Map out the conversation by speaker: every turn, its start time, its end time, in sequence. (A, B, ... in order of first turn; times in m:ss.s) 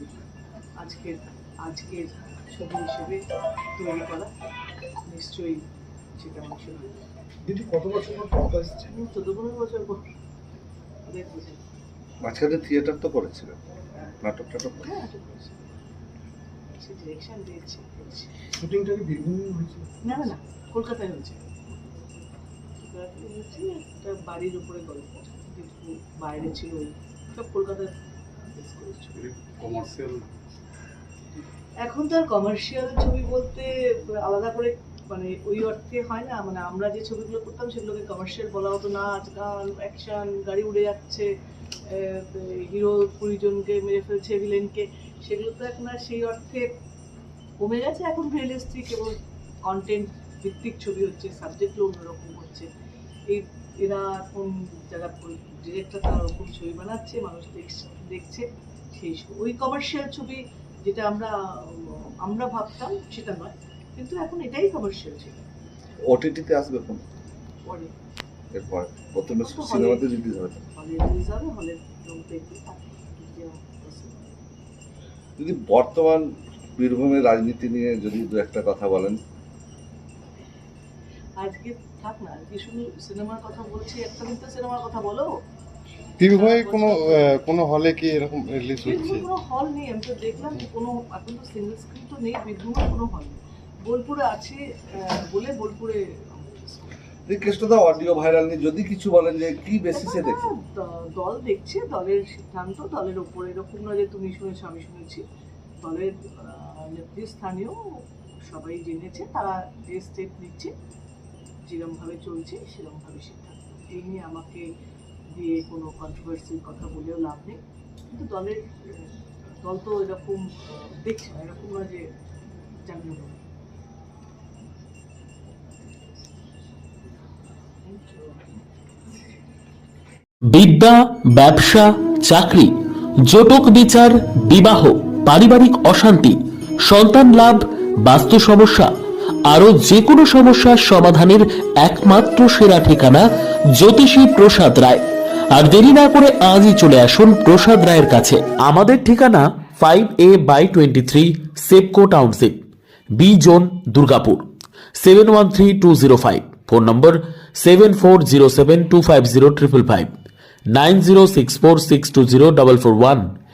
0:00.8-0:03.2 A
0:03.8-0:04.3 A
0:05.1-0:05.6 A
0:06.2-0:07.0 A
0:07.4-0:09.0 B
0:08.9-0:10.0 A
0:11.1-0:11.6 A
0:12.2-0:13.6 C
0:14.2-0:14.9 C
0:14.8-0:15.6 A
0:16.7-0:18.3 A
0:18.6-0:20.3 B
0:20.0-0:21.6 A
0:22.8-0:29.2 A
0:29.2-0:30.2 B
0:31.8-0:41.3 A
0:41.9-0:46.7 A
0:47.6-0:52.7 A
0:53.3-1:05.4 A
1:06.1-1:07.0 C
1:07.7-1:07.9 A
1:08.5-1:10.6 C
1:09.3-1:10.1 A
1:10.7-1:14.3 A
1:15.4-1:19.2 C
1:21.4-1:25.3 A
1:26.2-1:29.3 D
1:26.3-1:27.3 A
1:28.8-1:37.0 A
1:37.3-1:40.5 C
1:39.9-1:45.2 A
1:45.8-1:50.7 A
1:51.7-1:54.6 A
1:55.3-2:02.0 A
2:02.8-2:03.4 A
2:07.8-2:08.5 A
2:10.5-2:12.7 E
2:13.3-2:18.9 E
2:19.5-2:23.2 E
2:23.8-2:32.6 E
2:33.2-2:34.4 E
2:35.0-2:40.1 E
2:40.7-2:43.3 E